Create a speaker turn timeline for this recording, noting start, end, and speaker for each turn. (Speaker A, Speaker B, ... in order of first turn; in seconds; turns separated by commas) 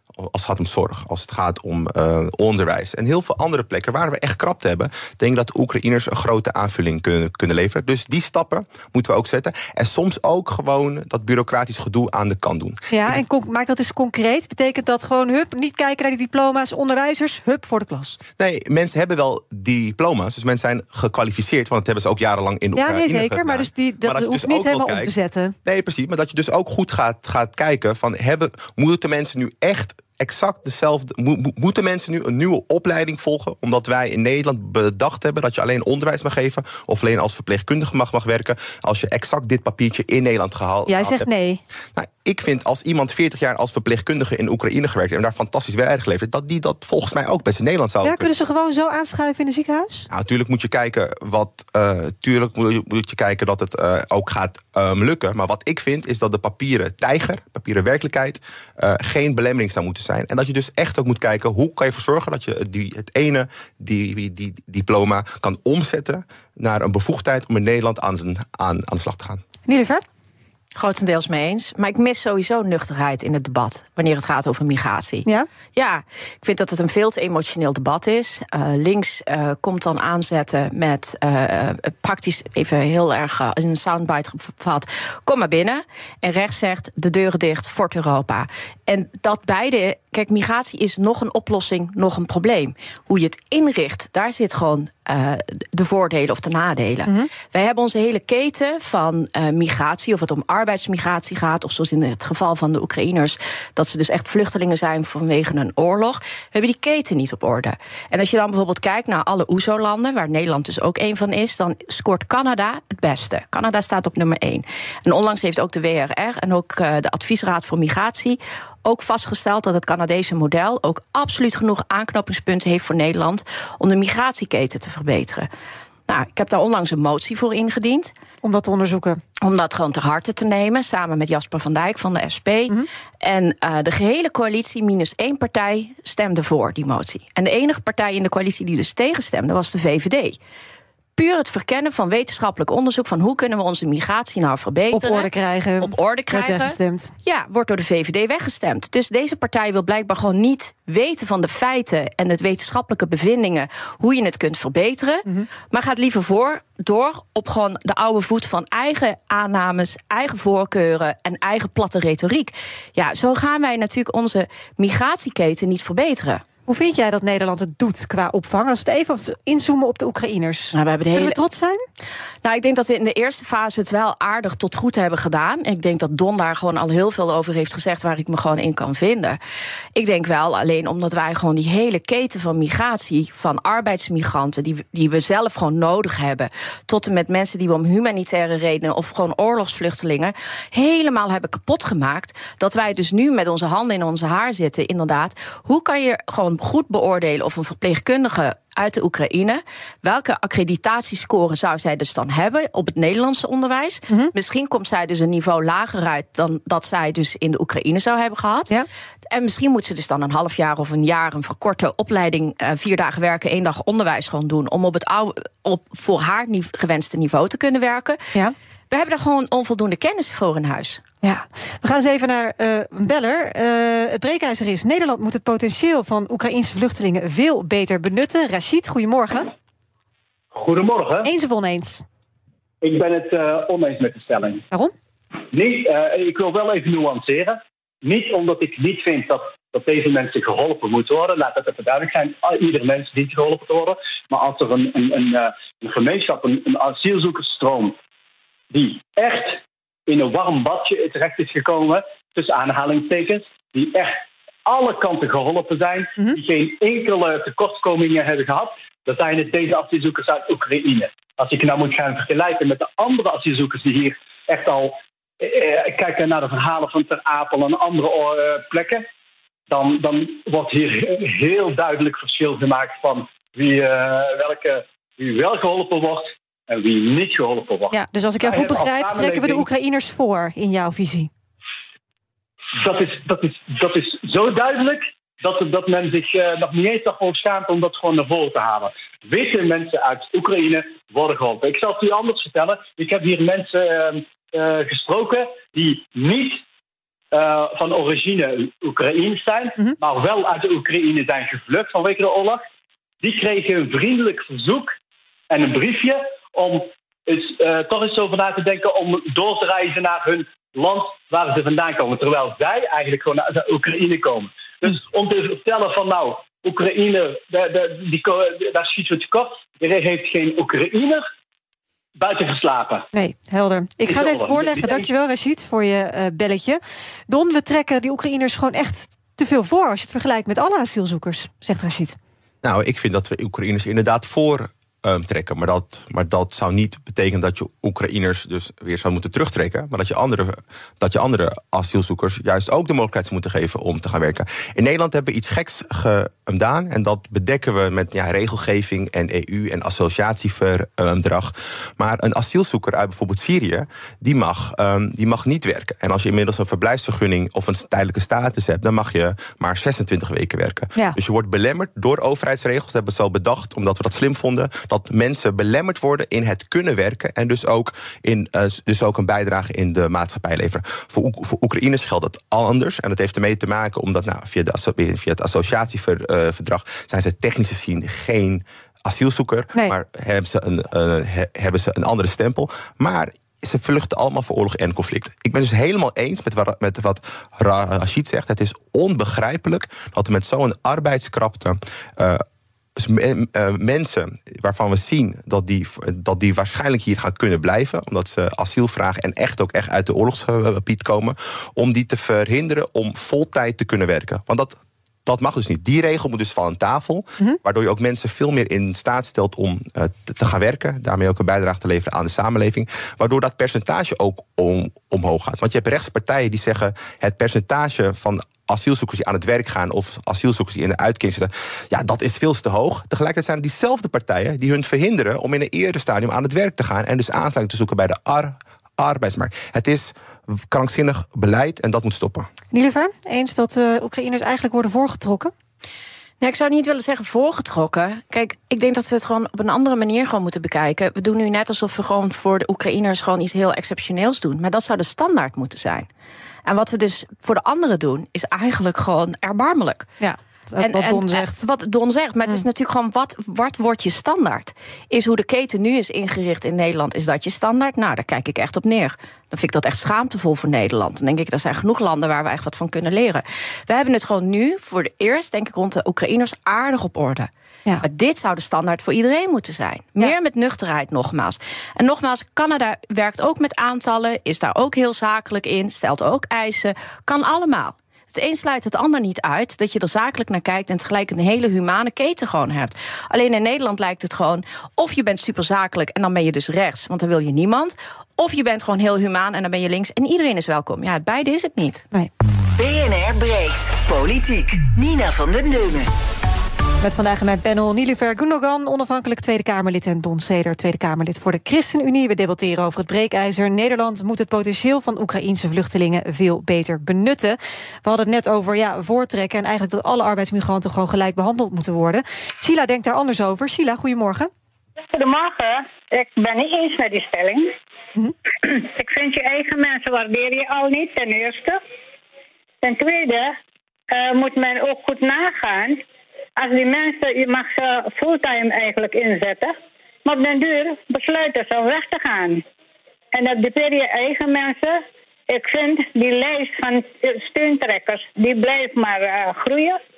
Speaker A: 0.1-13.2, Speaker B: 12.9-18.2, Speaker A: 18.4-25.1, Speaker B: 22.8-25.6, Speaker A: 25.6-41.3, Speaker B: 40.9-41.6, Speaker A: 42.0-48.3, Speaker B: 48.0-50.1, Speaker A: 50.1-69.4, Speaker B: 69.7-70.0, Speaker C: 70.8-125.5, Speaker C: 126.1-128.1, Speaker B: 128.4-129.2, Speaker C: 129.4-140.4, Speaker C: 141.2-166.4, Speaker B: 144.9-147.1, Speaker B: 166.7-171.8, Speaker C: 170.7-171.4, Speaker C: 172.4-179.4, Speaker C: 179.9-208.7, Speaker C: 209.3-218.2, Speaker C: 218.9-221.0, Speaker B: 221.2-229.5, Speaker D: 230.5-231.3, Speaker B: 231.2-232.0, Speaker D: 232.8-234.6, Speaker D: 235.5-248.0, Speaker D: 248.7-269.0, Speaker D: 269.7-279.6, Speaker B: 277.9-281.3, Speaker D: 282.7-296.6, Speaker D: 297.3-302.6, Speaker D: 303.2-304.9, Speaker D: 305.5-321.2, Speaker D: 322.2-323.1, Speaker B: 323.1-332.2, Speaker D: 324.1-325.1, Speaker A: 332.6-392.4, Speaker A: 392.9-432.5, Speaker B: 432.7-435.5, Speaker C: 436.4-446.1, Speaker C: 446.6-450.1, Speaker B: 450.2-451.6, Speaker C: 450.8-467.5, Speaker C: 468.0-492.0, Speaker E: 492.8-496.1, Speaker B: 497.0-514.5, Speaker F: 515.1-517.7, Speaker F: 518.6-521.8, Speaker F: 522.8-523.5, Speaker F: 524.1-526.0, Speaker F: 526.6-529.7, Speaker F: 530.2-532.6, Speaker F: 533.3-535.0, Speaker F: 535.5-540.0